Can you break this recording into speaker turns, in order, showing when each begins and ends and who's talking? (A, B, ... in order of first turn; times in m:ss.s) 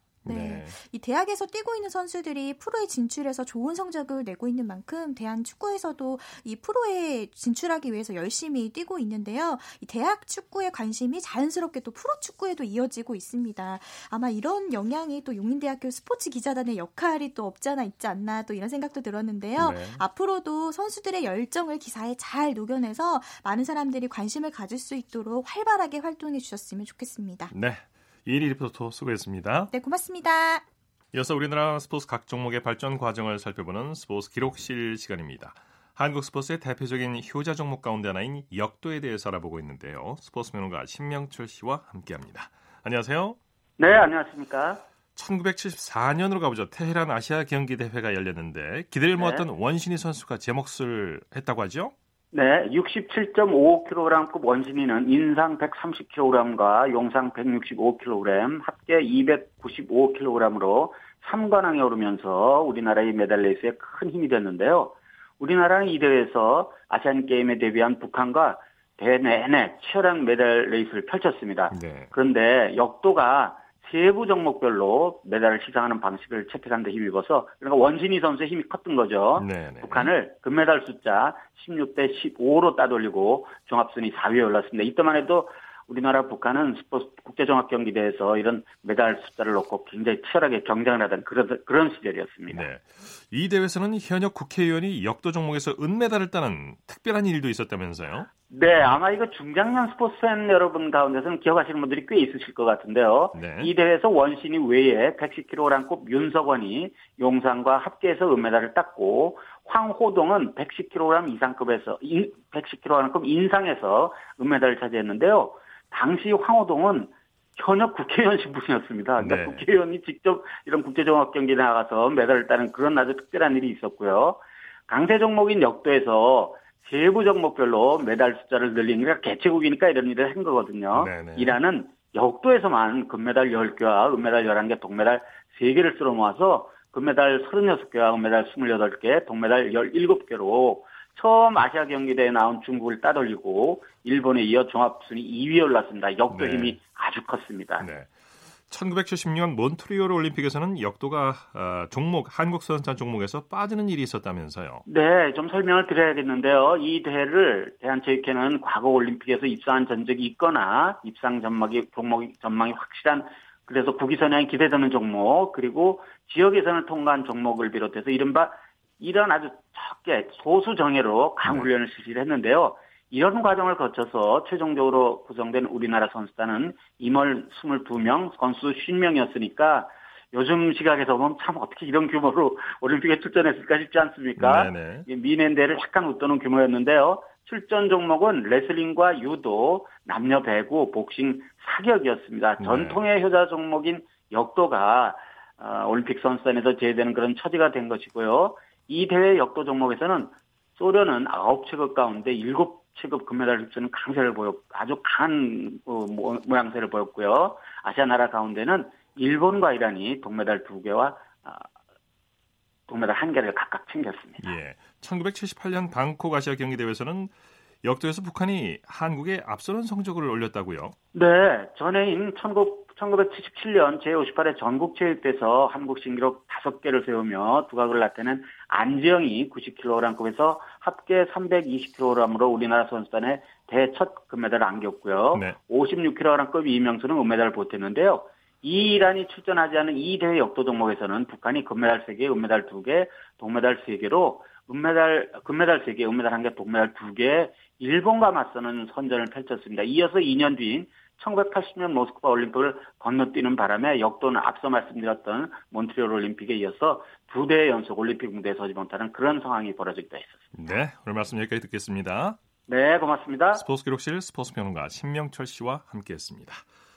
0:00.2-0:00.8 A
0:00.3-0:27.5 B
0:19.6-0:20.0 A
0:27.5-0:29.7 A
0:29.7-0:30.6 B
0:31.1-0:43.4 A
0:43.8-0:44.8 C
0:45.2-0:51.9 A
0:49.2-0:49.5 C
0:52.3-1:32.7 C
1:11.7-1:12.1 A
1:19.4-1:20.1 A
1:32.5-1:38.3 A
1:38.5-2:27.9 C
1:43.3-1:43.7 A
1:59.2-1:59.7 A
2:11.0-2:11.6 A
2:26.3-2:26.8 A
2:27.8-2:28.1 A
2:28.7-2:34.8 A
2:34.9-3:31.7 C
3:04.4-3:05.1 A
3:12.6-3:13.0 A
3:32.9-3:34.4 C
3:34.4-3:41.0 A
3:41.1-4:20.5 C
4:20.5-4:22.4 A
4:22.7-4:23.6 C
4:23.5-4:26.7 A